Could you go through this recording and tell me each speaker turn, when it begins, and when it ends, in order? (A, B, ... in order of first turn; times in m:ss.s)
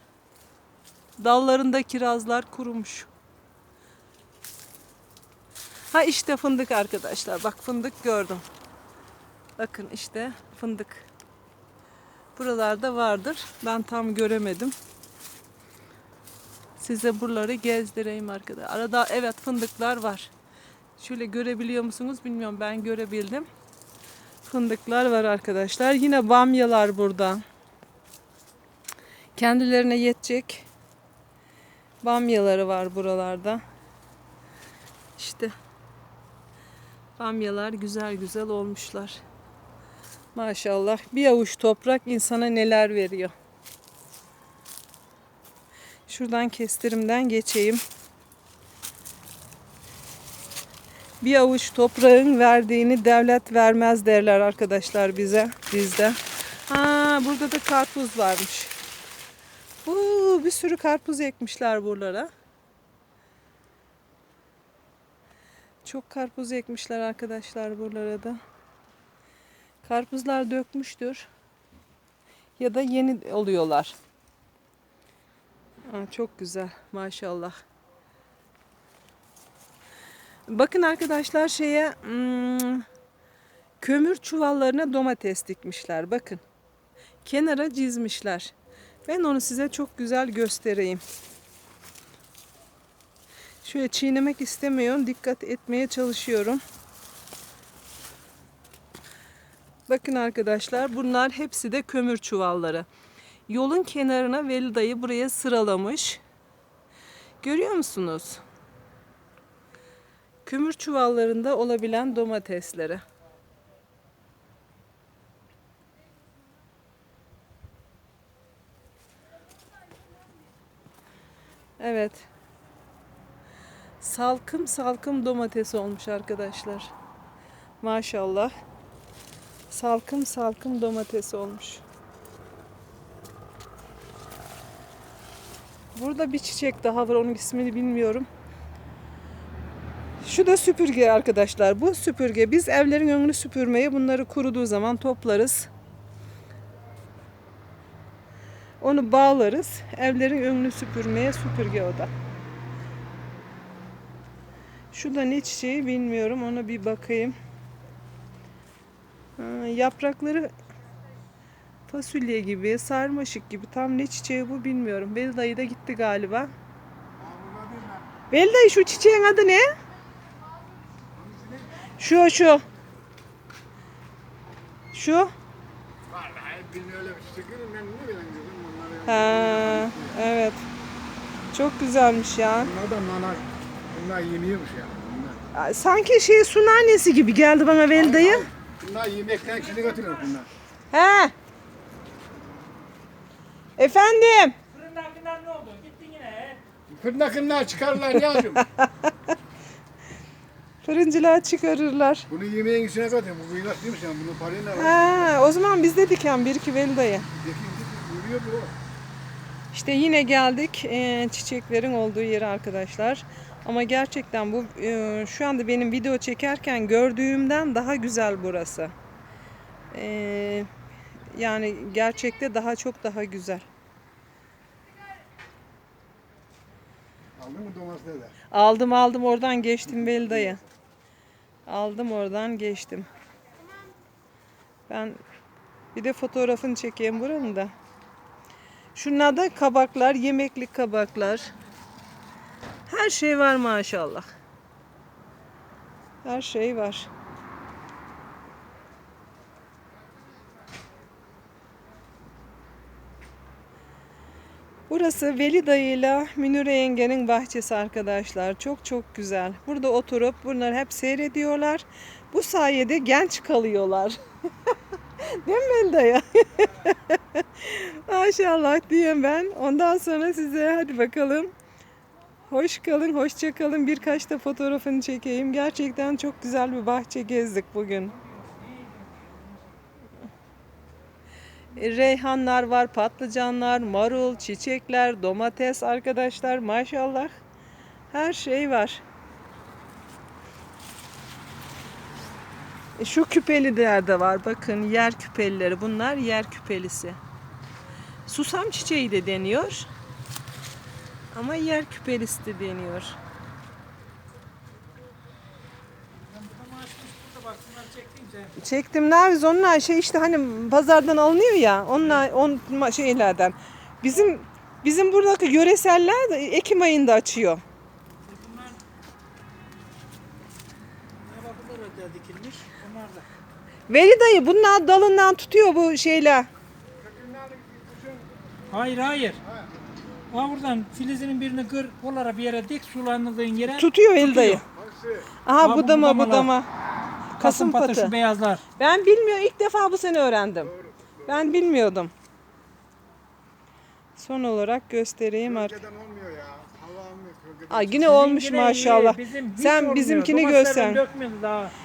0:01.2-0:03.1 A
0:05.9-0:08.4 A
0:09.6-0:11.1 A
0:12.4-0:14.7 A
0:16.8-0:20.3 A
0:21.0-0:23.5 A
0:24.4-0:27.4 A
0:29.4-0:30.7 A
0:32.0-0:33.6 A
0:35.2-0:35.5 A
0:37.2-0:39.2 A
0:40.3-0:43.3 A
0:46.1-0:47.8 A
0:51.2-0:58.7 A
0:59.8-1:02.3 A
1:05.8-1:08.4 A
1:09.8-1:11.3 A
1:12.6-1:14.0 A
1:15.9-1:17.6 A
1:20.5-1:22.8 A
1:23.8-1:26.4 A
1:27.2-1:28.5 A
1:29.0-1:31.0 A
1:33.6-1:36.6 A
1:39.9-1:42.9 A
1:43.5-1:46.2 A
1:47.4-1:48.4 A
1:50.4-1:53.0 A
2:01.8-2:02.3 A
2:04.0-2:06.9 A
2:07.8-2:08.5 A
2:09.7-2:11.8 A
2:15.9-2:18.3 A
2:20.2-2:25.7 A
2:28.8-2:32.1 A
2:34.9-2:37.4 A
2:39.4-2:40.5 A
2:41.9-2:46.5 A
2:47.2-2:48.0 B
2:48.3-2:49.7 A
2:51.1-2:51.8 B
2:52.0-2:52.6 A
2:54.9-2:55.3 A
2:56.1-3:00.2 B
2:59.0-3:00.6 A
3:01.5-3:02.7 A
3:02.6-3:05.5 B
3:05.5-3:08.5 A
3:07.9-3:10.5 B
3:09.8-3:10.1 C
3:10.9-3:11.3 A
3:13.8-3:14.6 A
3:14.7-3:16.6 C
3:16.9-3:18.7 B
3:20.8-3:22.3 A
3:22.3-3:25.3 B
3:24.7-3:27.3 A
3:27.3-3:28.8 B
3:29.7-3:38.9 A
3:39.9-3:40.7 A
3:41.3-3:43.6 A
3:47.4-3:48.3 B
3:48.5-3:50.6 A
3:49.9-3:50.6 B
3:51.6-3:53.1 A
3:54.9-3:55.2 A
3:55.9-3:57.7 A
3:58.9-4:01.5 A
4:02.9-4:04.3 A
4:06.2-4:07.1 A
4:14.9-4:24.2 A
4:25.2-4:31.5 A
4:32.5-4:38.2 A
4:38.2-4:39.5 C
4:41.7-4:47.4 A
4:48.1-4:49.0 A
4:53.0-4:57.2 A
4:58.3-4:59.9 A
5:01.3-5:03.2 A
5:06.3-5:08.5 C
5:08.6-5:17.6 A
5:18.2-5:18.8 C
5:21.2-5:23.2 C
5:23.9-5:26.5 A
5:27.0-5:28.3 B
5:28.7-5:29.4 C
5:29.4-5:29.8 B
5:30.3-5:34.6 C
5:33.7-5:34.6 A
5:34.6-5:35.3 B
5:35.4-5:36.7 A
5:35.6-5:36.5 C
5:37.4-5:38.1 A
5:37.4-5:38.6 C
5:38.8-5:40.7 A
5:40.6-5:41.5 B
5:41.2-5:42.1 A
5:44.2-5:45.8 A
5:45.4-5:48.2 B
5:47.7-5:51.0 A
5:48.0-5:51.7 C